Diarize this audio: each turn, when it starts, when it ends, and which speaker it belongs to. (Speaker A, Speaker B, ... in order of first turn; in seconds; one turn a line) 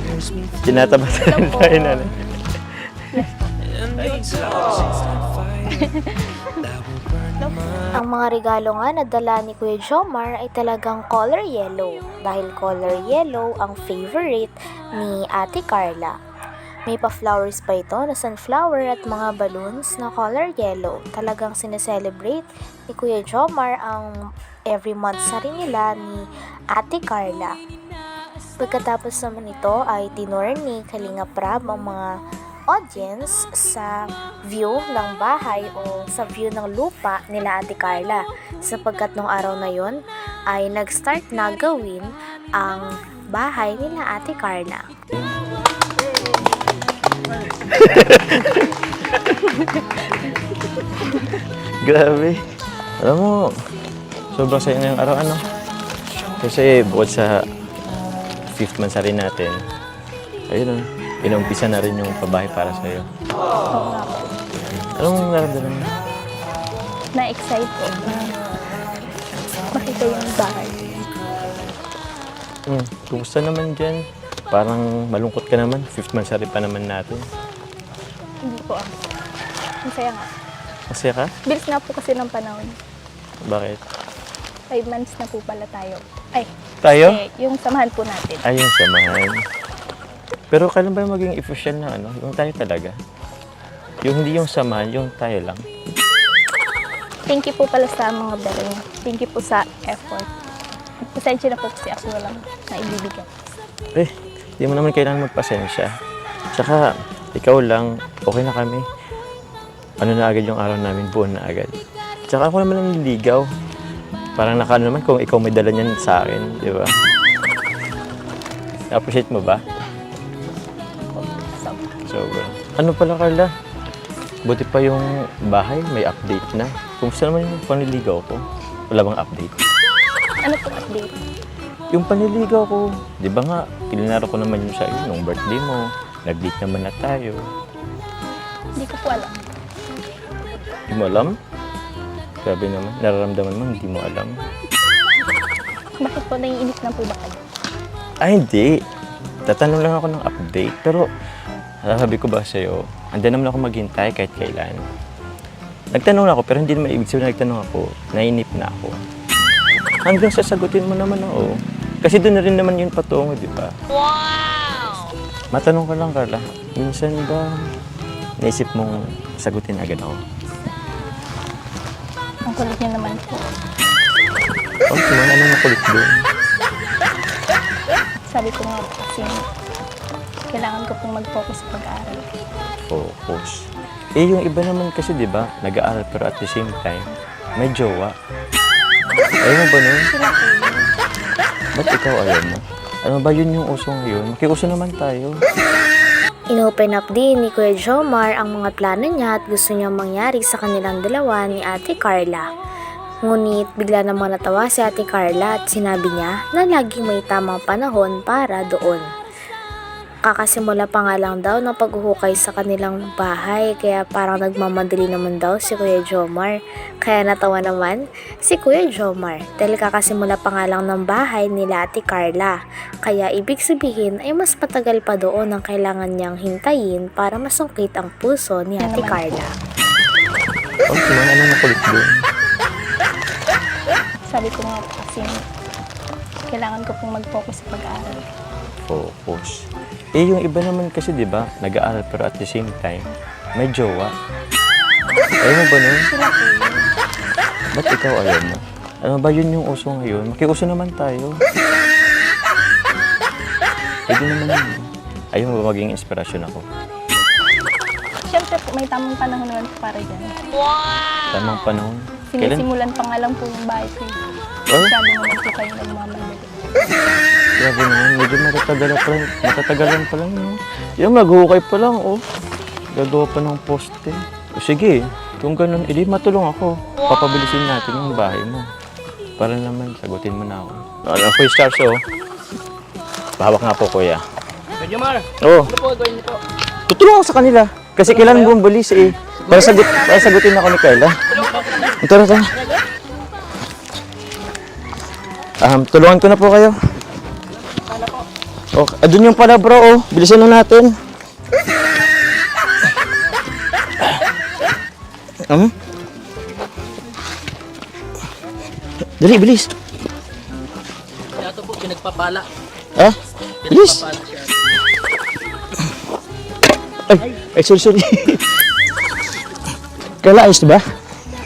Speaker A: 0.6-2.4
Speaker B: 5.8-6.2
Speaker C: 8.0-16.1
Speaker C: 16.9-24.1
Speaker C: 24.7-27.5
Speaker C: 28.6-32.0
Speaker C: 32.7-34.0
Speaker C: 34.5-44.9
Speaker A: 47.7-48.6
Speaker A: 51.8-52.4
Speaker A: 53.0-53.5
Speaker A: 54.3-55.5
Speaker A: 56.4-57.4
Speaker A: 58.5-59.6
Speaker A: 60.5-63.1
Speaker B: 63.7-64.3
Speaker A: 65.0-65.9
Speaker B: 67.1-68.8
Speaker B: 69.7-71.0
Speaker A: 72.7-77.2
Speaker B: 78.5-79.0
Speaker B: 79.8-80.3
Speaker A: 80.9-81.3
Speaker B: 81.4-82.8
Speaker A: 83.4-83.8
Speaker B: 84.7-88.5
Speaker A: 86.8-87.2
Speaker A: 88.4-89.3
Speaker A: 90.5-92.9
Speaker A: 94.0-95.6
Speaker B: 97.3-100.3
Speaker B: 101.1-103.3
Speaker A: 103.9-105.9
Speaker A: 106.5-106.8
Speaker A: 107.3-108.8
Speaker A: 110.0-111.7
Speaker A: 112.3-113.4
Speaker A: 114.4-116.9
Speaker A: 118.9-119.6
Speaker B: 121.1-121.8
Speaker A: 122.0-123.5
Speaker A: 124.5-129.6
Speaker B: 130.4-131.2
Speaker A: 131.9-137.4
Speaker B: 138.8-139.5
Speaker A: 140.9-141.3
Speaker A: 142.4-144.3
Speaker B: 146.0-147.4
Speaker A: 148.2-148.7
Speaker A: 149.5-151.1
Speaker A: 151.8-154.8
Speaker A: 155.9-159.0
Speaker A: 160.0-163.7
Speaker A: 165.5-167.7
Speaker A: 168.4-170.2
Speaker B: 172.5-173.5
Speaker A: 174.9-176.2
Speaker B: 178.3-179.5
Speaker B: 180.5-182.2
Speaker A: 182.9-183.6
Speaker A: 184.2-188.1
Speaker A: 189.4-190.1
Speaker B: 190.1-190.9
Speaker A: 191.8-195.3
Speaker C: 196.5-202.4
Speaker C: 203.2-209.0
Speaker C: 210.2-222.5
Speaker C: 223.1-229.5
Speaker B: 228.8-229.4
Speaker A: 230.9-232.2
Speaker B: 234.2-235.4
Speaker B: 236.5-238.3
Speaker A: 238.9-239.6
Speaker A: 240.2-244.1
Speaker A: 245.4-246.0
Speaker B: 246.0-246.9
Speaker A: 247.7-251.3
Speaker A: 254.1-256.6
Speaker B: 258.2-260.4
Speaker A: 261.3-262.6
Speaker B: 262.3-264.2
Speaker B: 264.8-266.5
Speaker A: 267.6-272.2
Speaker A: 272.9-278.6
Speaker A: 279.4-282.0
Speaker A: 283.4-284.2
Speaker D: 284.8-286.4
Speaker A: 285.4-285.7
Speaker A: 286.9-291.2
Speaker D: 288.1-288.5
Speaker D: 289.5-290.2
Speaker D: 291.3-292.0
Speaker A: 292.0-292.5
Speaker D: 292.6-292.8
Speaker A: 295.6-296.8
Speaker D: 297.9-298.2
Speaker A: 298.7-300.9
Speaker A: 305.5-305.7
Speaker A: 309.2-309.7
Speaker D: 311.4-312.5
Speaker D: 313.7-314.6
Speaker A: 313.7-314.0
Speaker A: 317.1-318.5
Speaker A: 320.2-320.8